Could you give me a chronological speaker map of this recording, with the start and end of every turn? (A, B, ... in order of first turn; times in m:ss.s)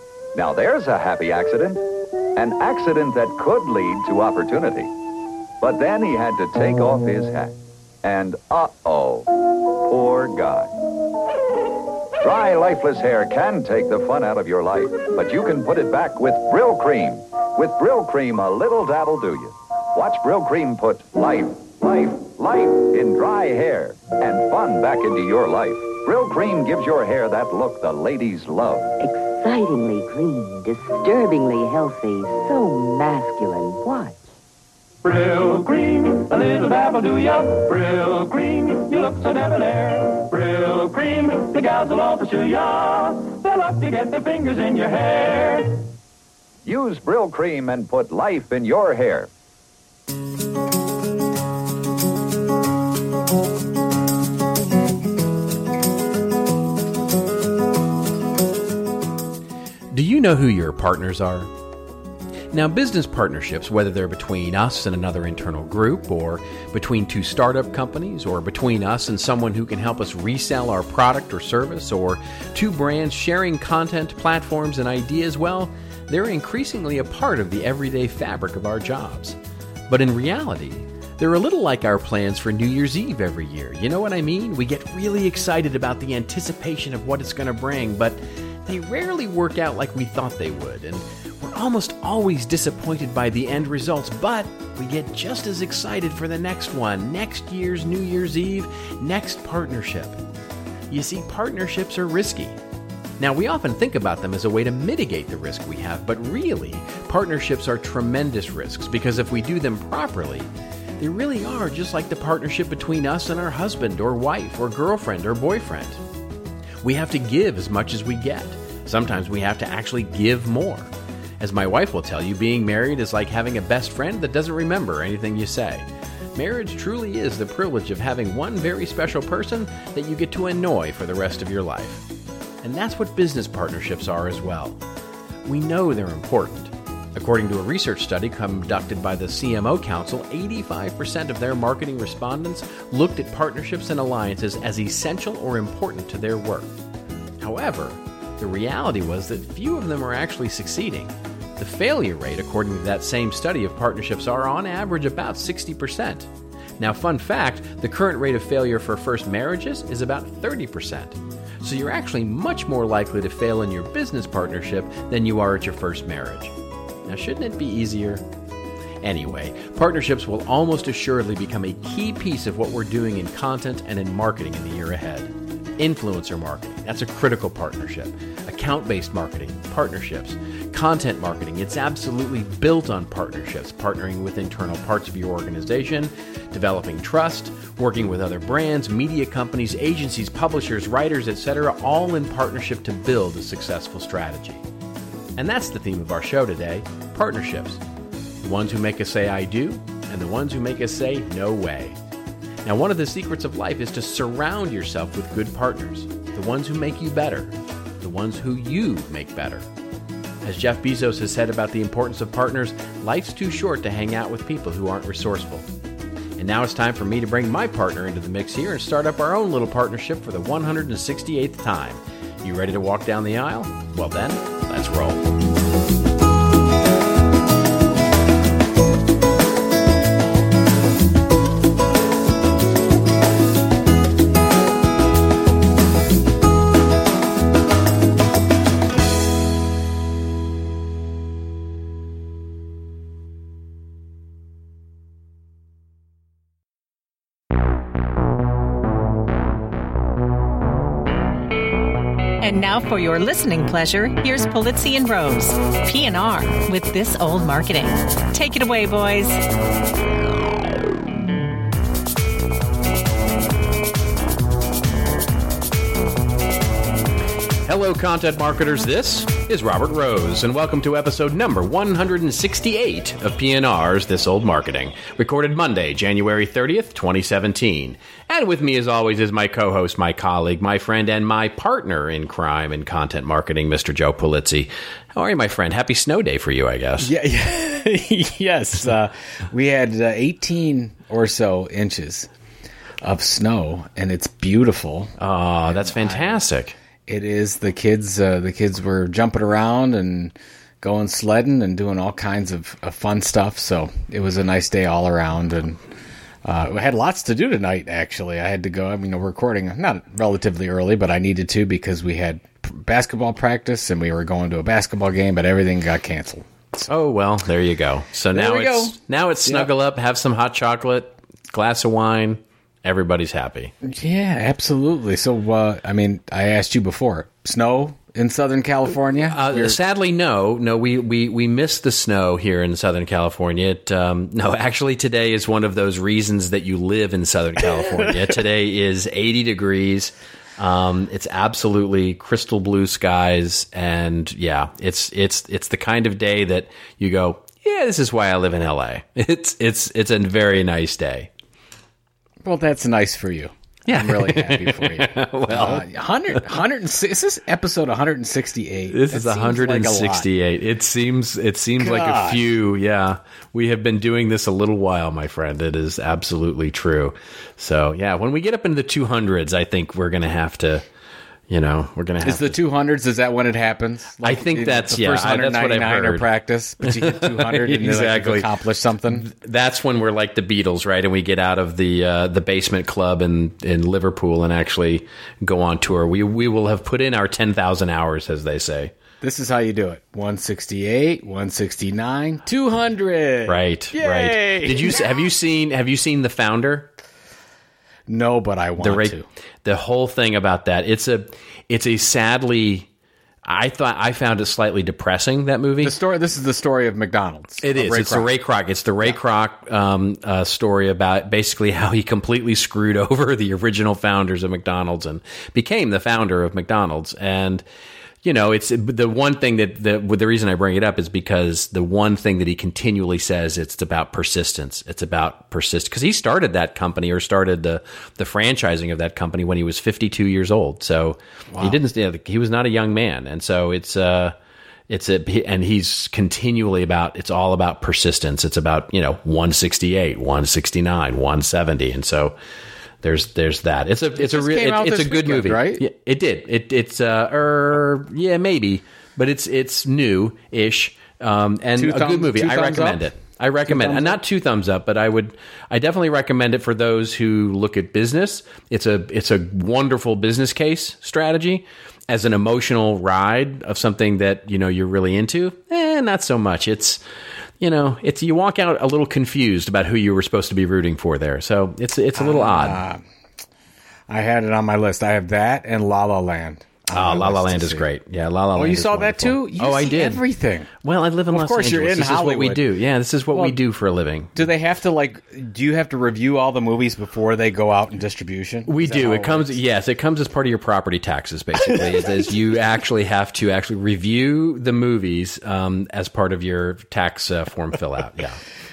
0:00.4-0:01.8 A
0:02.4-0:04.9 A
0:05.6-0:10.7 A
0:12.2-0:28.9 A
0:29.0-0:34.2 B
0:35.0-0:45.9 C
0:46.6-0:49.3 A
0:59.9-1:01.5 D
1:02.5-1:19.4 D
1:19.9-1:40.2 D
1:40.9-1:42.6 D
1:43.2-1:50.5 D
1:51.0-1:56.0 D
1:56.8-2:00.9 D
2:01.4-2:12.1 D
2:12.6-2:14.8 D
2:15.4-2:26.8 D
2:27.4-2:46.6 D
2:47.1-2:48.2 D
2:49.0-3:14.6 D
3:15.4-3:17.8 D
3:18.4-3:22.0 D
3:22.6-3:29.6 D
3:30.4-3:35.7 D
3:36.4-3:45.2 D
4:12.4-4:19.4 E
4:27.6-4:47.1 D
4:47.0-4:52.3 F
4:53.0-4:55.1 F
4:55.2-4:56.8 D
4:55.7-4:56.4 F
4:57.1-5:05.8 F
5:06.4-5:16.9 F
5:16.9-5:23.7 D
5:18.3-5:19.7 F
5:23.8-5:29.8 F
5:29.3-5:51.3 D
5:37.6-5:38.2 F
5:52.4-6:00.3 F
5:53.9-5:55.9 D
5:58.9-6:10.8 D
6:01.8-6:02.5 F
6:11.5-6:12.6 D
6:12.2-6:19.3 F
6:14.2-6:16.3 D
6:16.8-6:18.5 D
6:19.1-6:28.9 D
6:29.2-6:35.1 F
6:33.5-6:36.9 D
6:38.1-6:39.3 F
6:38.8-6:42.9 D
6:43.4-6:46.0 D
6:45.8-6:48.3 F
6:47.6-6:57.6 D
6:58.2-7:14.4 D
7:11.5-7:11.8 F
7:14.9-7:22.4 D
7:23.0-7:47.0 D
7:24.2-7:25.8 F
7:31.8-7:33.1 F
7:33.7-7:34.2 F
7:47.6-7:52.8 D
7:52.2-7:53.0 F
7:54.1-7:57.9 F
7:56.9-8:00.2 D
7:58.5-8:00.7 F
8:00.8-8:04.3 D
8:01.3-8:02.6 F
8:04.4-8:09.6 F
8:08.7-8:18.4 D
8:11.6-8:12.0 F